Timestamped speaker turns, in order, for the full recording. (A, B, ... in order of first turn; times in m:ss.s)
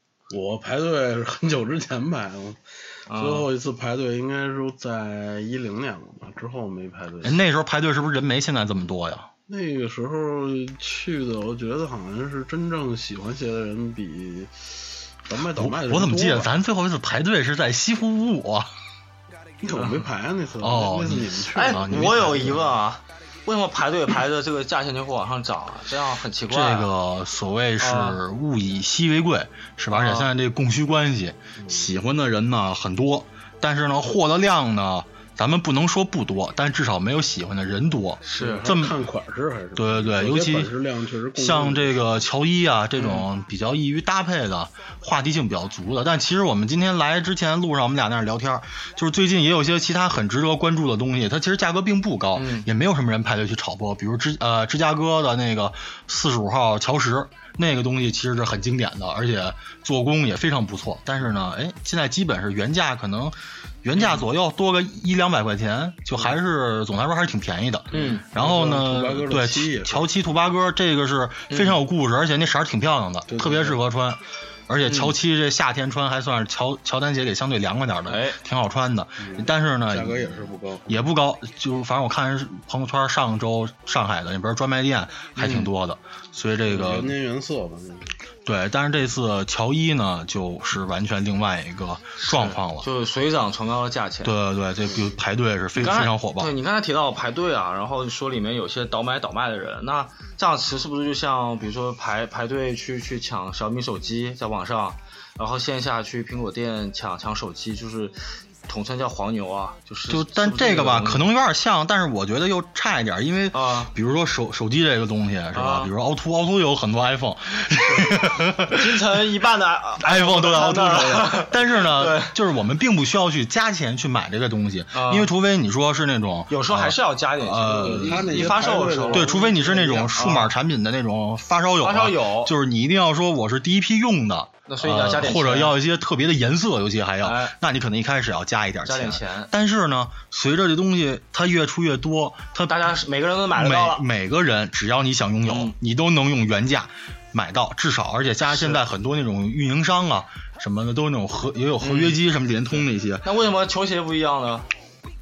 0:00.3-0:07.4 A
0:03.1-0:03.5 B
0:07.2-0:09.3 C
0:09.5-0:14.7 A
0:15.2-0:16.5 A
0:15.5-0:18.7 C
0:19.6-0:22.6 A
0:19.8-0:20.0 B
0:20.6-0:22.7 C
0:21.5-0:26.9 B
0:26.5-0:39.0 C
0:27.8-0:28.2 B
0:29.9-0:30.3 B
0:31.6-0:31.8 A
0:38.2-0:38.7 B
0:38.3-0:42.2 A
0:39.8-0:40.7 C
0:41.4-1:27.1 C
0:43.0-0:43.2 B
0:52.4-0:52.7 B
1:04.0-1:04.2 B
1:07.9-1:08.2 B
1:07.9-1:10.1 A
1:11.5-1:11.8 B
1:13.3-1:13.8 A
1:14.8-1:15.1 B
1:18.1-1:18.4 B
1:19.2-1:21.0 A
1:25.4-1:25.7 B
1:26.6-1:28.1 A
1:28.4-1:32.9 C
1:32.2-1:34.3 B
1:34.2-1:36.5 C
1:35.8-1:51.3 B
1:50.1-1:59.0 C
1:53.5-1:53.9 B
1:55.5-1:55.9 B
1:58.7-2:02.3 B
2:00.0-2:22.8 C
2:04.9-2:05.3 B
2:06.5-2:09.3 B
2:07.8-2:10.4 A
2:10.1-2:10.5 B
2:11.8-2:12.5 B
2:14.7-2:15.7 B
2:17.2-2:17.5 B
2:18.8-2:19.5 B
2:22.6-2:24.0 B
2:23.5-2:33.2 C
2:25.4-2:25.7 B
2:28.5-2:28.8 B
2:31.8-2:32.2 B
2:33.2-2:34.7 B